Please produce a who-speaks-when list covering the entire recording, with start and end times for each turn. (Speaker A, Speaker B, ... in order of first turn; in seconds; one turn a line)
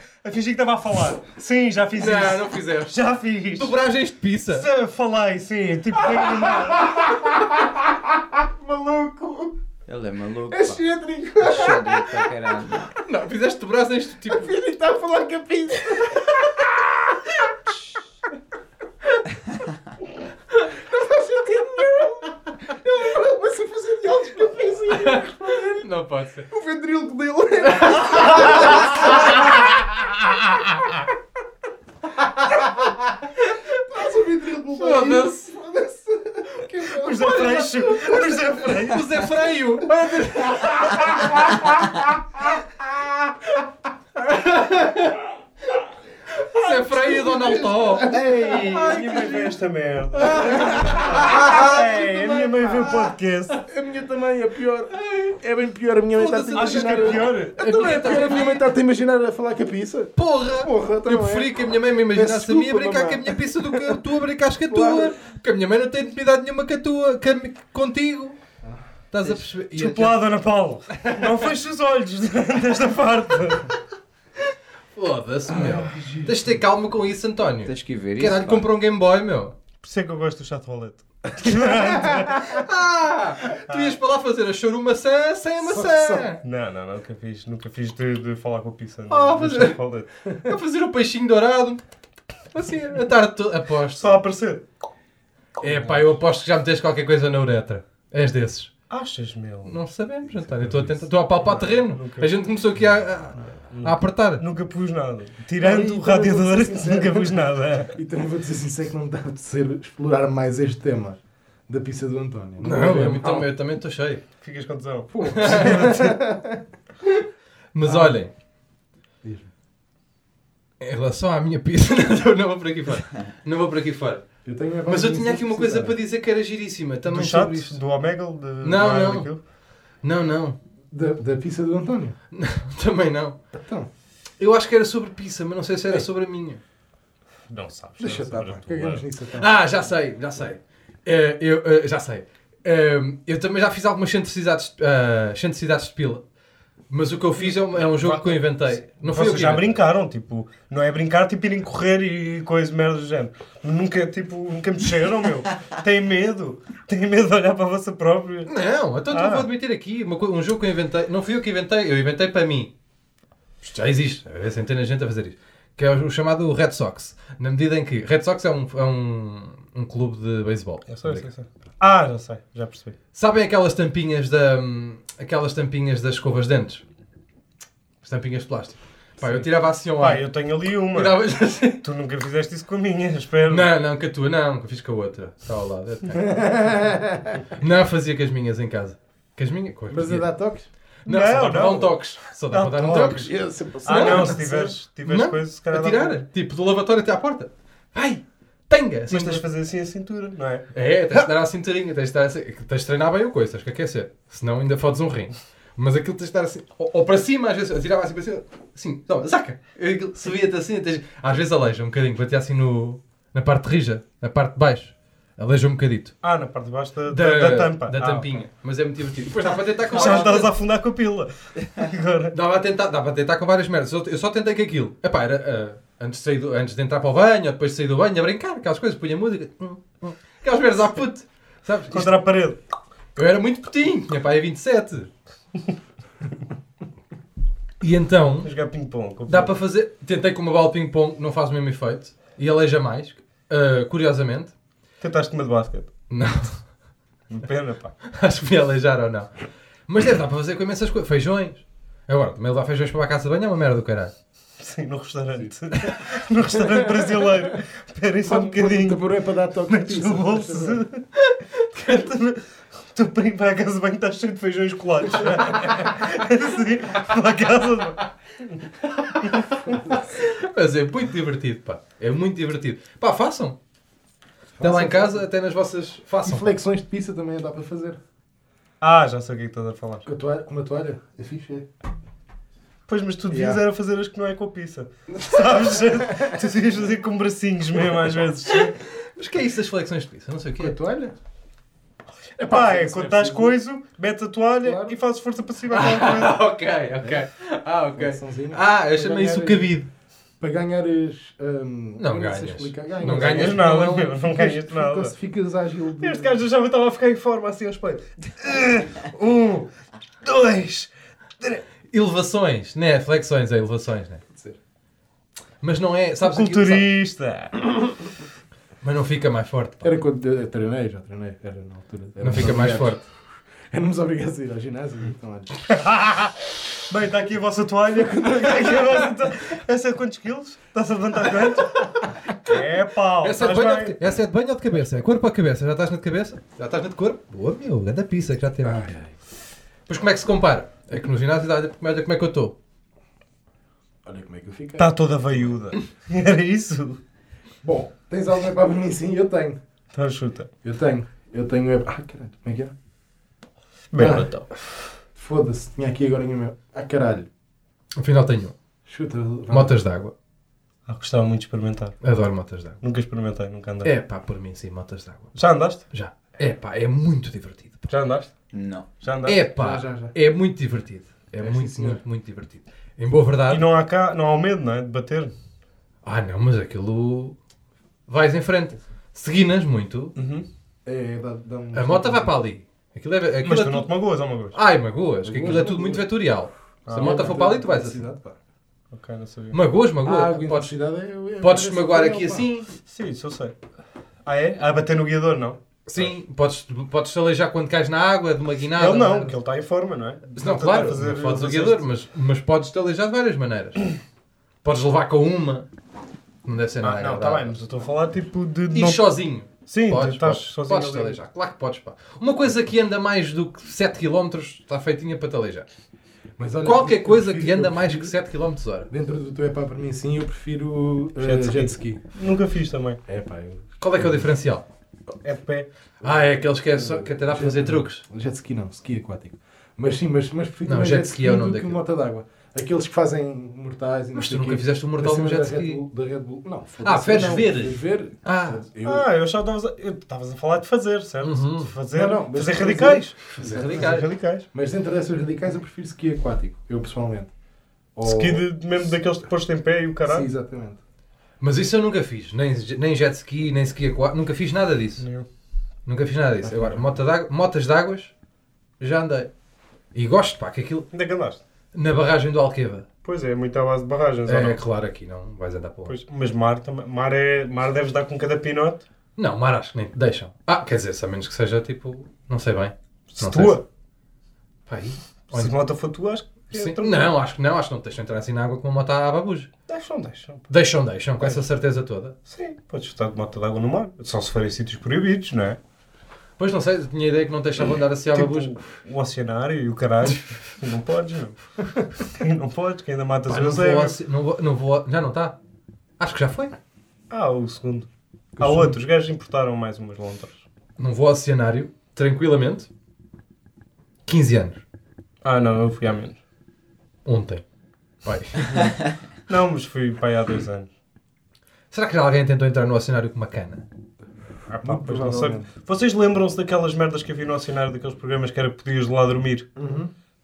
Speaker A: 0.2-3.8
Speaker B: 1.9-4.7
Speaker A: 4.5-7.0
Speaker C: 6.5-9.5
Speaker D: 9.9-10.8
Speaker C: 10.5-12.3
Speaker D: 11.4-12.9
Speaker B: 12.9-14.5
Speaker C: 14.3-17.2
Speaker C: 20.9-25.9
Speaker B: 24.9-26.5
Speaker C: 26.5-29.8
Speaker B: 27.8-29.6
Speaker B: 32.4-32.9
Speaker C: 33.8-38.9
Speaker B: 34.8-35.5
Speaker A: 36.9-39.3
Speaker B: 37.2-41.8
Speaker C: 40.2-41.8
Speaker B: 44.1-45.2
Speaker B: 46.3-49.5
Speaker C: 46.6-49.5
Speaker A: 48.1-53.6
Speaker C: 50.1-53.1
Speaker B: 50.2-51.9
Speaker C: 53.7-64.0
Speaker B: 55.0-55.3
Speaker B: 56.1-58.7
Speaker A: 56.5-58.4
Speaker B: 60.1-68.4
Speaker C: 64.7-65.1
Speaker B: 69.1-70.2
Speaker A: 69.7-73.8
Speaker B: 71.0-71.5
Speaker B: 74.9-79.5
Speaker C: 75.5-76.6
Speaker D: 77.6-78.6
Speaker A: 79.8-82.6
Speaker B: 82.4-86.4
Speaker A: 83.7-84.0
Speaker C: 85.6-86.3
Speaker A: 86.4-90.1
Speaker B: 89.1-89.8
Speaker B: 90.4-91.8
Speaker B: 92.5-94.2
Speaker A: 94.0-94.6
Speaker B: 95.6-98.7
Speaker C: 95.6-96.0
Speaker A: 98.9-99.8
Speaker B: 99.6-104.4
Speaker A: 100.3-102.3
Speaker A: 103.7-107.9
Speaker C: 105.6-113.5
Speaker B: 112.6-114.2
Speaker A: 114.4-116.1
Speaker C: 115.1-116.6
Speaker B: 115.3-115.9
Speaker B: 117.7-118.3
Speaker C: 117.8-118.2
Speaker C: 119.2-119.5
Speaker B: 120.8-124.3
Speaker C: 124.4-126.0
Speaker B: 124.8-127.8
Speaker A: 127.1-129.4
Speaker B: 128.6-129.3
Speaker B: 130.0-130.6
Speaker C: 130.9-132.2
Speaker B: 132.3-133.4
Speaker C: 133.5-133.9
Speaker B: 134.4-136.6
Speaker A: 137.5-139.0
Speaker C: 138.0-139.5
Speaker B: 139.3-146.2
Speaker B: 146.9-149.8
Speaker A: 147.7-158.5
Speaker B: 158.5-162.7
Speaker A: 159.1-159.5
Speaker B: 163.6-171.3
Speaker A: 170.9-172.9
Speaker B: 173.1-176.8
Speaker B: 178.0-180.3
Speaker A: 180.0-181.2
Speaker B: 180.9-181.8
Speaker A: 181.7-183.7
Speaker B: 183.4-186.5
Speaker C: 186.1-187.4
Speaker B: 187.6-190.3
Speaker C: 189.9-190.7
Speaker B: 191.0-193.3
Speaker A: 191.1-193.3
Speaker C: 192.8-194.8
Speaker B: 193.8-194.4
Speaker A: 193.8-196.2
Speaker B: 195.1-199.4
Speaker A: 199.1-200.7
Speaker B: 200.7-216.1
Speaker A: 216.2-218.3
Speaker B: 217.1-220.5
Speaker A: 219.9-222.3
Speaker B: 222.3-232.2
Speaker A: 231.9-232.6
Speaker B: 233.1-235.1
Speaker B: 237.8-238.5
Speaker A: 238.4-239.6
Speaker B: 239.3-244.5
Speaker A: 245.0-245.9
Speaker B: 246.1-246.6
Speaker A: 247.3-248.0
Speaker B: 248.0-249.3
Speaker B: 249.9-254.1
Speaker A: 254.6-259.1
Speaker C: 256.5-257.5
Speaker C: 258.2-260.8
Speaker A: 259.7-261.0
Speaker B: 261.3-262.0
Speaker A: 261.7-269.7
Speaker B: 269.3-273.6
Speaker C: 274.6-275.2
Speaker B: 274.6-276.5
Speaker C: 276.2-278.0
Speaker A: 278.8-280.0
Speaker C: 280.1-281.7
Speaker A: 282.9-288.8
Speaker C: 283.3-283.6
Speaker C: 285.3-286.4
Speaker B: 288.5-290.8
Speaker C: 290.6-291.1
Speaker C: 292.4-293.6
Speaker A: 292.4-296.4
Speaker C: 294.6-294.9
Speaker B: 295.7-299.9
Speaker C: 297.9-299.8
Speaker C: 300.4-306.4
Speaker B: 302.0-304.1
Speaker A: 303.0-305.1
Speaker A: 306.0-309.7
Speaker A: 310.2-311.6
Speaker B: 311.9-314.2
Speaker C: 314.3-314.6
Speaker B: 315.6-316.9
Speaker A: 316.2-317.8
Speaker B: 318.8-319.9
Speaker C: 319.8-323.1
Speaker B: 322.2-323.0
Speaker C: 323.7-325.6
Speaker A: 325.7-334.1
Speaker C: 327.9-329.1
Speaker B: 333.2-338.9
Speaker C: 338.6-339.1
Speaker B: 339.9-342.6
Speaker C: 344.0-345.4
Speaker A: 344.8-347.0
Speaker C: 347.6-349.6
Speaker A: 349.9-350.5
Speaker C: 350.6-352.7
Speaker A: 353.9-354.6
Speaker C: 354.0-354.3
Speaker C: 355.1-357.3
Speaker B: 357.9-358.5
Speaker C: 358.9-359.8
Speaker B: 359.5-360.1
Speaker A: 360.9-362.0
Speaker B: 362.0-362.8
Speaker A: 362.8-363.9
Speaker B: 363.8-365.4
Speaker A: 365.3-365.8
Speaker B: 365.9-367.9
Speaker A: 367.9-368.3
Speaker D: 368.5-368.9
Speaker A: 369.0-369.4
Speaker B: 369.2-373.7
Speaker C: 369.6-370.1
Speaker C: 371.4-372.0
Speaker A: 373.5-375.3
Speaker B: 376.0-377.4
Speaker B: 378.1-380.1
Speaker A: 380.1-380.4
Speaker C: 380.9-382.3
Speaker B: 381.7-383.9
Speaker A: 383.4-384.6
Speaker B: 384.5-388.0
Speaker C: 385.2-386.1
Speaker A: 386.9-387.3
Speaker C: 386.9-388.4
Speaker A: 388.9-389.6
Speaker B: 389.5-390.7
Speaker C: 390.0-392.5
Speaker B: 391.4-392.7
Speaker A: 392.8-393.6
Speaker A: 394.2-396.1
Speaker B: 395.9-399.4
Speaker A: 398.8-401.8
Speaker B: 400.3-403.9
Speaker B: 404.6-405.7
Speaker B: 406.4-407.5
Speaker A: 406.8-409.0
Speaker B: 408.7-415.7
Speaker A: 409.6-411.2
Speaker C: 416.4-418.1
Speaker B: 416.6-418.9
Speaker C: 418.9-422.0
Speaker A: 421.2-423.0
Speaker C: 423.1-424.2
Speaker B: 423.8-424.6
Speaker A: 425.2-425.7
Speaker B: 426.0-428.0
Speaker C: 426.7-439.1
Speaker B: 430.6-431.8
Speaker B: 434.1-435.8
Speaker B: 436.8-438.6
Speaker A: 438.8-444.4
Speaker B: 441.2-441.7
Speaker C: 441.9-447.3
Speaker B: 443.3-444.1
Speaker C: 447.9-448.4
Speaker A: 448.0-450.3
Speaker C: 450.0-450.8
Speaker B: 451.4-455.0
Speaker A: 455.0-455.3
Speaker B: 455.8-458.1
Speaker C: 456.4-456.9
Speaker B: 458.8-459.3
Speaker B: 459.9-460.9
Speaker A: 460.9-461.4
Speaker B: 461.7-462.9
Speaker A: 463.0-464.6
Speaker B: 464.2-466.0
Speaker A: 465.9-468.8
Speaker B: 469.2-473.6
Speaker A: 473.1-473.6
Speaker B: 474.6-475.5
Speaker A: 475.3-477.1
Speaker B: 476.5-479.5
Speaker A: 479.7-480.5
Speaker B: 480.5-482.1
Speaker A: 482.2-485.6
Speaker B: 486.4-488.6
Speaker A: 488.1-491.4
Speaker B: 490.0-490.4
Speaker A: 492.0-494.0
Speaker B: 493.3-495.4
Speaker B: 496.0-496.6
Speaker A: 497.1-497.9
Speaker C: 498.4-498.8
Speaker A: 498.4-500.4
Speaker B: 500.8-502.7
Speaker B: 504.1-504.6
Speaker A: 505.2-506.2
Speaker B: 507.0-507.4
Speaker B: 508.0-508.8
Speaker A: 508.5-508.7
Speaker A: 509.3-510.7
Speaker B: 511.7-513.6
Speaker A: 514.5-519.5
Speaker C: 514.6-515.5
Speaker C: 519.5-519.9